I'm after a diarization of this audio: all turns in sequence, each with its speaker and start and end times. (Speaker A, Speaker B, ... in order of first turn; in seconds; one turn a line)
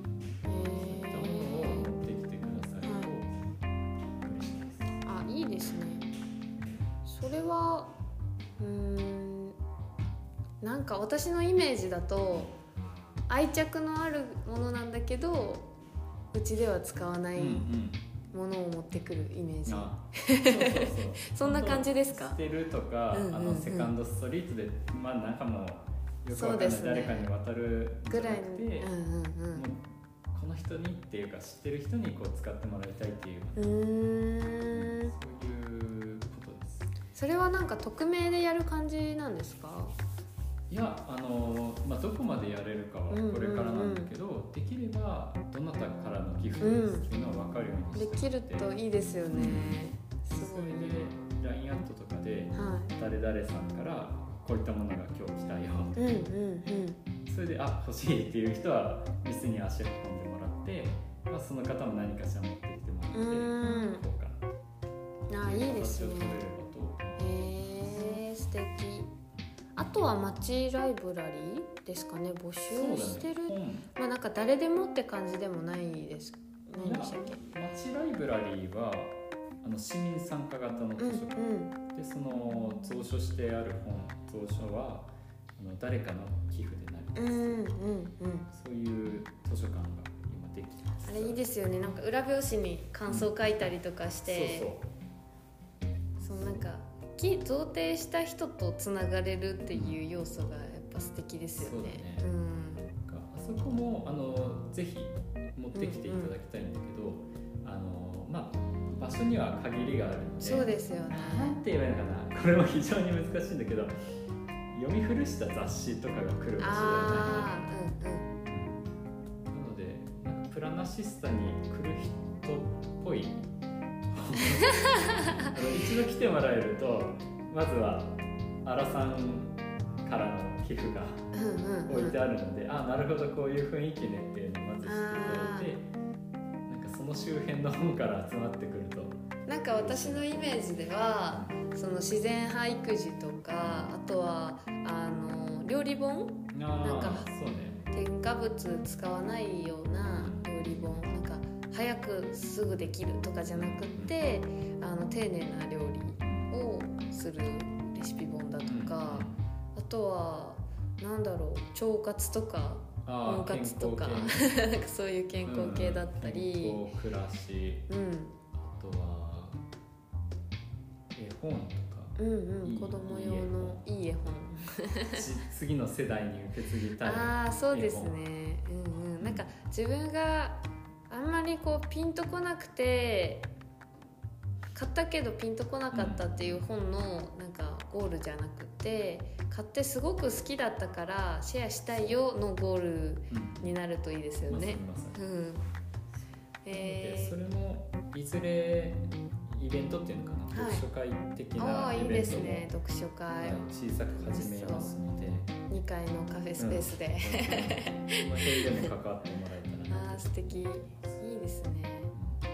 Speaker A: 0.4-1.9
Speaker B: 0.7-3.3
Speaker A: 2.8-3.1
Speaker B: 4.2-5.0
Speaker A: 5.0-6.1
Speaker A: 7.0-7.9
Speaker A: 8.6-9.6
Speaker A: 10.6-12.5
Speaker A: 13.3-15.7
Speaker A: 16.3-17.6
Speaker B: 17.4-18.0
Speaker A: 18.3-22.4
Speaker B: 19.6-28.9
Speaker A: 23.1-23.9
Speaker A: 26.3-27.3
Speaker A: 28.1-29.6
Speaker B: 29.5-33.8
Speaker A: 33.5-35.1
Speaker B: 34.7-36.9
Speaker A: 37.1-39.9
Speaker B: 40.7-48.7
Speaker A: 43.1-44.1
Speaker A: 46.6-47.0
Speaker A: 47.9-51.1
Speaker B: 49.3-56.2
Speaker A: 52.5-52.9
Speaker A: 56.0-57.0
Speaker B: 57.2-64.4
Speaker A: 63.1-64.0
Speaker A: 65.3-66.4
Speaker B: 65.3-67.3
Speaker A: 67.2-69.1
Speaker A: 69.8-77.6
Speaker B: 72.7-73.9
Speaker B: 76.8-87.7
Speaker A: 81.0-81.7
Speaker A: 87.1-88.5
Speaker B: 88.5-91.4
Speaker A: 91.0-94.7
Speaker B: 93.1-93.3
Speaker B: 94.2-94.9
Speaker A: 96.2-102.9
Speaker B: 96.3-96.6
Speaker B: 99.7-100.0
Speaker B: 101.6-102.3
Speaker B: 103.0-113.9
Speaker A: 105.7-106.3
Speaker A: 110.4-111.6
Speaker B: 114.7-117.7
Speaker A: 116.6-118.3
Speaker B: 118.5-118.8
Speaker B: 119.5-123.4
Speaker B: 124.1-131.3
Speaker A: 124.7-125.5
Speaker A: 131.3-132.2
Speaker B: 131.9-135.9
Speaker A: 134.8-135.7
Speaker B: 136.7-140.7
Speaker A: 139.4-147.3
Speaker B: 143.6-143.9
Speaker B: 146.5-147.8
Speaker A: 147.9-166.9
Speaker B: 150.1-150.4
Speaker B: 153.5-154.1
Speaker B: 156.2-156.5
Speaker B: 158.6-159.4
Speaker B: 163.0-164.5
Speaker B: 165.4-167.9
Speaker A: 167.9-168.4
Speaker B: 168.5-169.6
Speaker B: 171.1-173.8
Speaker A: 172.2-175.2
Speaker B: 175.1-178.1
Speaker A: 177.0-183.5
Speaker B: 179.2-179.4
Speaker A: 184.7-195.6
Speaker B: 185.9-186.6
Speaker B: 191.9-192.2
Speaker B: 193.3-193.8
Speaker B: 194.5-195.2
Speaker A: 196.6-197.4
Speaker B: 196.7-202.7
Speaker A: 200.5-200.8
Speaker A: 201.6-204.9
Speaker B: 203.4-205.5
Speaker A: 205.7-208.9
Speaker B: 206.6-211.2
Speaker A: 209.9-212.1
Speaker B: 212.1-212.4